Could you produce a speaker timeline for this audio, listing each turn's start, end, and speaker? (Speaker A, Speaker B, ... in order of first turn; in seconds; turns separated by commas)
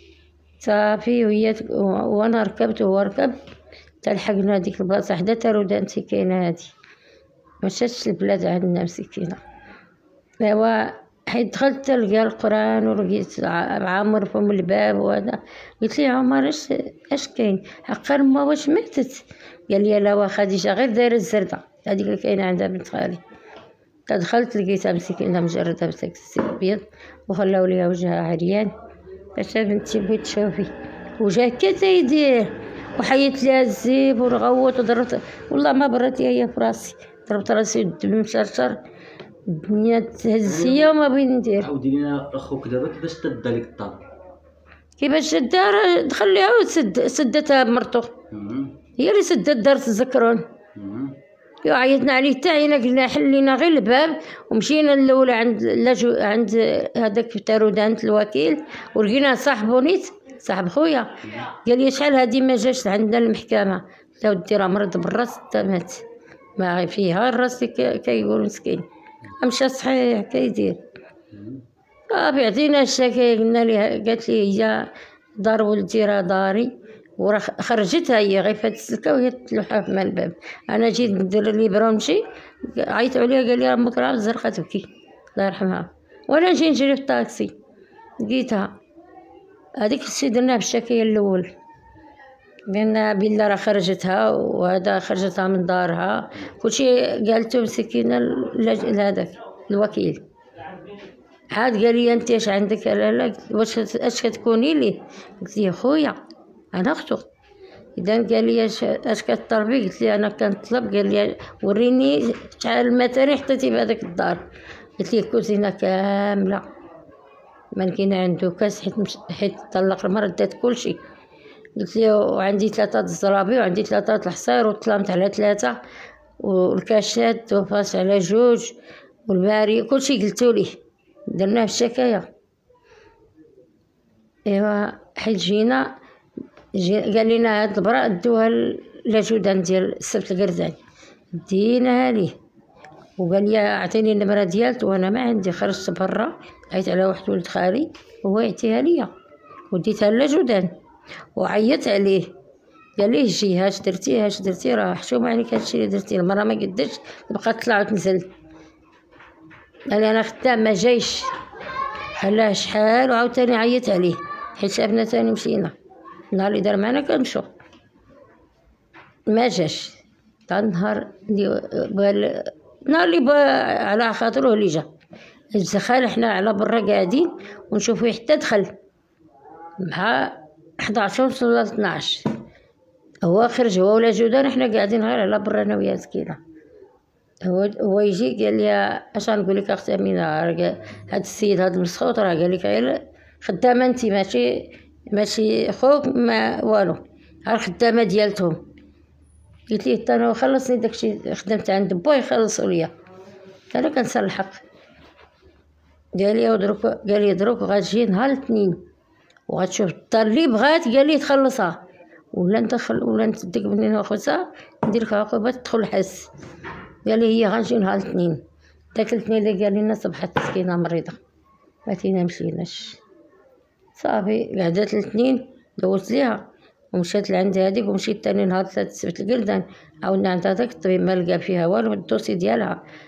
Speaker A: 0.6-3.3, Speaker A: 4.0-6.7, Speaker A: 7.6-9.4, Speaker A: 10.4-23.2, Speaker A: 24.1-28.7, Speaker A: 29.4-38.8, Speaker A: 39.5-41.7, Speaker B: 40.4-41.0, Speaker B: 41.6-44.0, Speaker A: 45.0-48.1, Speaker B: 48.3-48.8, Speaker A: 49.0-50.4, Speaker B: 50.8-51.2, Speaker A: 51.6-66.0, Speaker A: 66.6-68.8, Speaker A: 69.4-70.8, Speaker B: 71.3-71.6, Speaker A: 72.1-87.5, Speaker A: 88.2-88.7, Speaker A: 89.8-91.5, Speaker A: 92.7-100.2, Speaker A: 101.5-106.2, Speaker A: 106.7-107.3, Speaker A: 108.0-114.4, Speaker A: 115.0-116.6, Speaker A: 117.7-121.0, Speaker A: 121.8-125.8, Speaker A: 126.4-128.7, Speaker A: 129.3-130.8, Speaker A: 131.3-132.3, Speaker A: 134.5-135.9, Speaker A: 136.7-140.8, Speaker A: 141.3-142.3, Speaker A: 143.2-149.1, Speaker A: 149.7-150.7, Speaker A: 151.3-152.3, Speaker A: 153.0-158.3, Speaker A: 159.9-161.3, Speaker A: 162.2-165.7, Speaker A: 166.3-167.5, Speaker A: 169.3-174.8, Speaker A: 175.5-178.7, Speaker A: 179.8-182.3, Speaker A: 183.2-186.4, Speaker A: 187.4-198.6, Speaker A: 199.7-202.9, Speaker A: 203.7-204.6, Speaker A: 206.1-208.8, Speaker A: 209.5-211.8, Speaker A: 212.3-216.3, Speaker A: 217.0-218.4, Speaker A: 218.9-221.2, Speaker A: 221.9-223.0, Speaker A: 223.9-232.8